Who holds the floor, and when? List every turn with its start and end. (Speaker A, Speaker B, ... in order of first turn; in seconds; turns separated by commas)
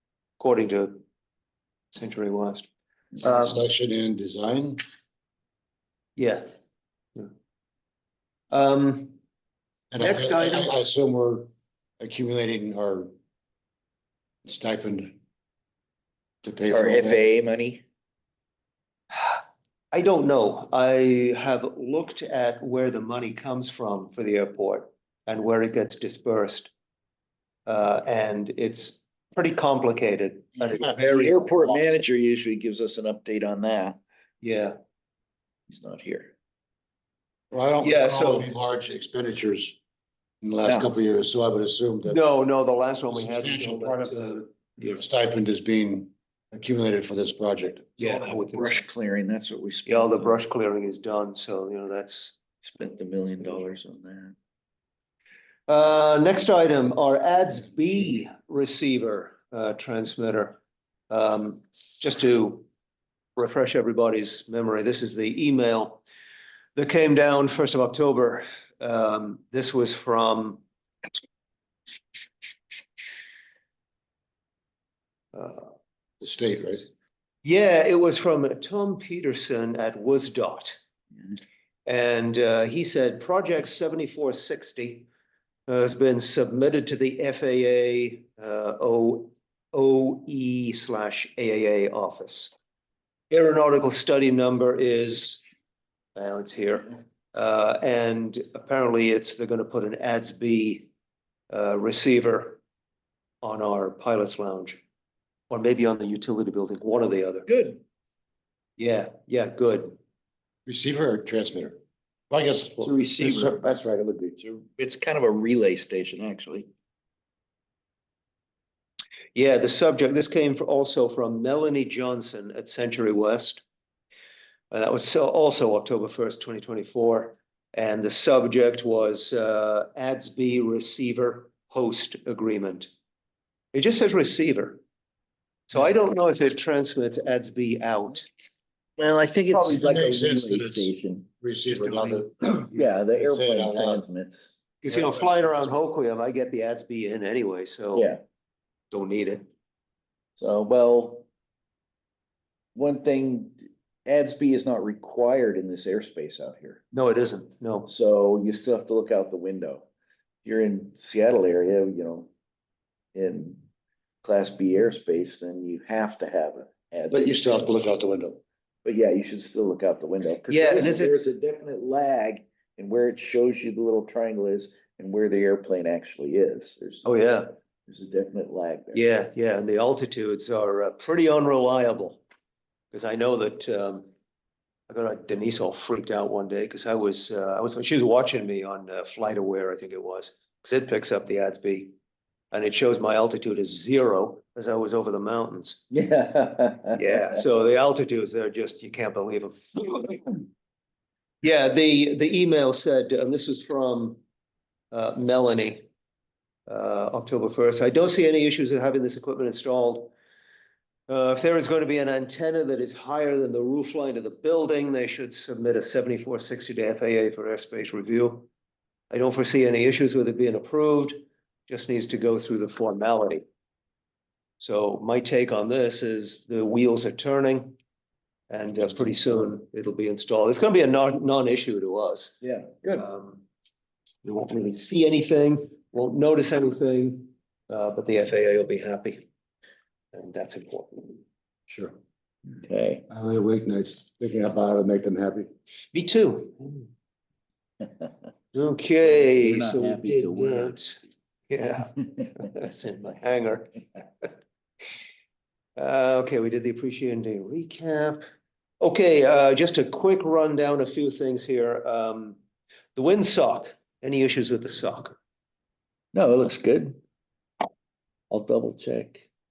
Speaker A: 0.4-1.0, Speaker A: 1.9-3.6, Speaker B: 3.2-4.8, Speaker A: 6.2-6.5, Speaker A: 8.5-9.2, Speaker B: 9.9-13.1, Speaker A: 10.0-10.7, Speaker B: 14.4-15.2, Speaker B: 16.4-17.2, Speaker C: 16.7-17.8, Speaker A: 19.1-19.4, Speaker A: 19.9-26.7, Speaker A: 27.6-31.7, Speaker B: 30.7-31.6, Speaker C: 31.0-34.0, Speaker A: 34.4-34.7, Speaker C: 35.7-36.3, Speaker B: 37.5-39.8, Speaker A: 37.8-38.5, Speaker B: 40.4-42.2, Speaker C: 40.6-40.9, Speaker A: 42.0-45.0, Speaker B: 43.1-48.1, Speaker A: 48.0-48.9, Speaker C: 48.0-50.4, Speaker A: 49.9-52.3, Speaker C: 52.6-54.4, Speaker A: 55.7-60.6, Speaker A: 61.1-62.7, Speaker A: 63.4-66.0, Speaker A: 66.8-70.6, Speaker A: 75.3-75.7, Speaker B: 76.2-76.9, Speaker A: 77.4-80.8, Speaker A: 81.8-85.1, Speaker A: 85.7-92.5, Speaker A: 93.3-95.4, Speaker A: 96.2-100.9, Speaker A: 101.5-102.6, Speaker A: 103.4-104.8, Speaker A: 105.5-107.5, Speaker C: 107.5-107.8, Speaker A: 108.8-110.0, Speaker B: 110.7-111.8, Speaker B: 112.3-114.5, Speaker C: 112.8-113.6, Speaker C: 114.4-116.7, Speaker A: 119.3-123.6, Speaker A: 124.7-132.9, Speaker A: 133.7-134.8, Speaker A: 135.7-138.2, Speaker C: 139.0-141.3, Speaker B: 139.5-144.0, Speaker A: 141.8-142.2, Speaker C: 142.7-144.6, Speaker A: 144.8-148.1, Speaker B: 144.9-145.2, Speaker C: 147.9-148.2, Speaker A: 148.9-149.5, Speaker C: 150.4-151.2, Speaker C: 152.7-156.8, Speaker A: 156.9-157.9, Speaker C: 157.9-159.8, Speaker C: 160.4-162.3, Speaker C: 163.1-163.6, Speaker C: 164.2-167.5, Speaker B: 167.1-168.4, Speaker C: 168.8-177.1, Speaker A: 170.5-171.2, Speaker A: 177.0-177.5, Speaker C: 177.9-179.0, Speaker A: 178.9-182.2, Speaker A: 182.9-184.1, Speaker A: 184.9-191.9, Speaker A: 192.5-195.8, Speaker C: 195.9-197.0, Speaker A: 196.9-200.4, Speaker A: 201.4-204.2, Speaker A: 204.9-205.9, Speaker A: 206.7-210.1, Speaker A: 211.1-218.5, Speaker A: 219.1-223.4, Speaker A: 224.6-227.8, Speaker A: 228.5-233.4, Speaker C: 232.4-233.1, Speaker A: 234.2-239.2, Speaker A: 240.1-241.2, Speaker B: 241.7-241.9, Speaker C: 242.6-243.1, Speaker B: 243.1-245.5, Speaker A: 245.9-246.9, Speaker A: 248.5-251.0, Speaker C: 249.0-251.0, Speaker A: 251.5-254.3, Speaker A: 255.8-258.2, Speaker A: 258.8-262.4, Speaker A: 262.9-265.2, Speaker C: 266.1-267.0, Speaker C: 268.3-269.3